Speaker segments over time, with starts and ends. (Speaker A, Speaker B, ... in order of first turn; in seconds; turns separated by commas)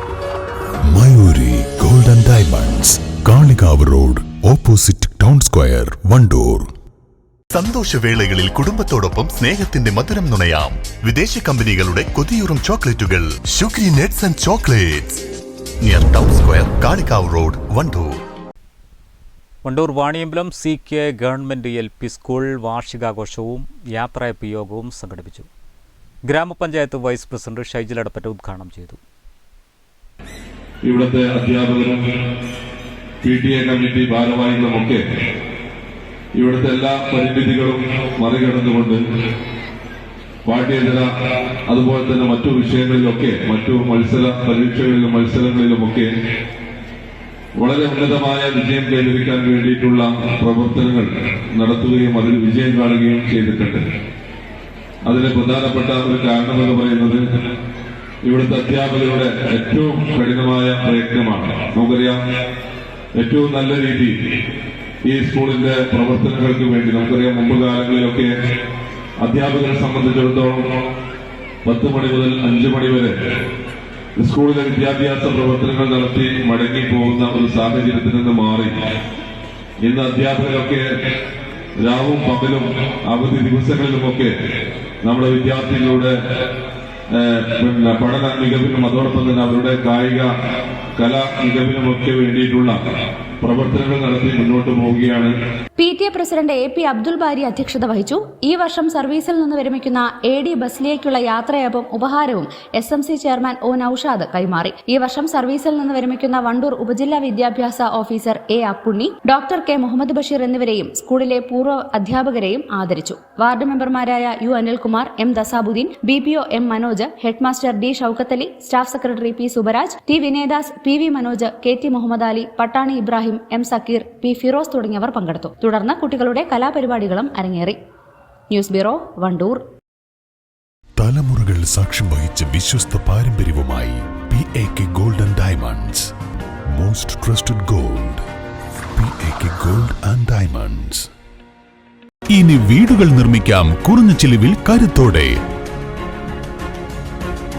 Speaker A: 0.9-6.7, Speaker B: 7.5-15.2, Speaker B: 15.8-18.1, Speaker C: 19.6-25.5, Speaker C: 26.2-29.0, Speaker D: 30.8-32.0, Speaker D: 33.2-35.0, Speaker D: 36.4-39.0, Speaker D: 40.5-41.1, Speaker D: 41.7-46.1, Speaker D: 47.6-53.8, Speaker D: 55.1-57.2, Speaker D: 58.3-62.2, Speaker D: 63.2-64.1, Speaker D: 65.1-68.3, Speaker D: 69.2-70.7, Speaker D: 71.7-73.1, Speaker D: 74.2-78.7, Speaker D: 79.8-80.8, Speaker D: 81.8-84.3, Speaker D: 85.0-86.1, Speaker D: 87.1-90.3, Speaker D: 91.0-92.8, Speaker D: 93.4-95.3, Speaker E: 95.8-127.8, Speaker E: 128.5-129.6, Speaker A: 131.0-136.1, Speaker A: 136.7-138.2, Speaker A: 138.9-141.1, Speaker A: 142.3-145.4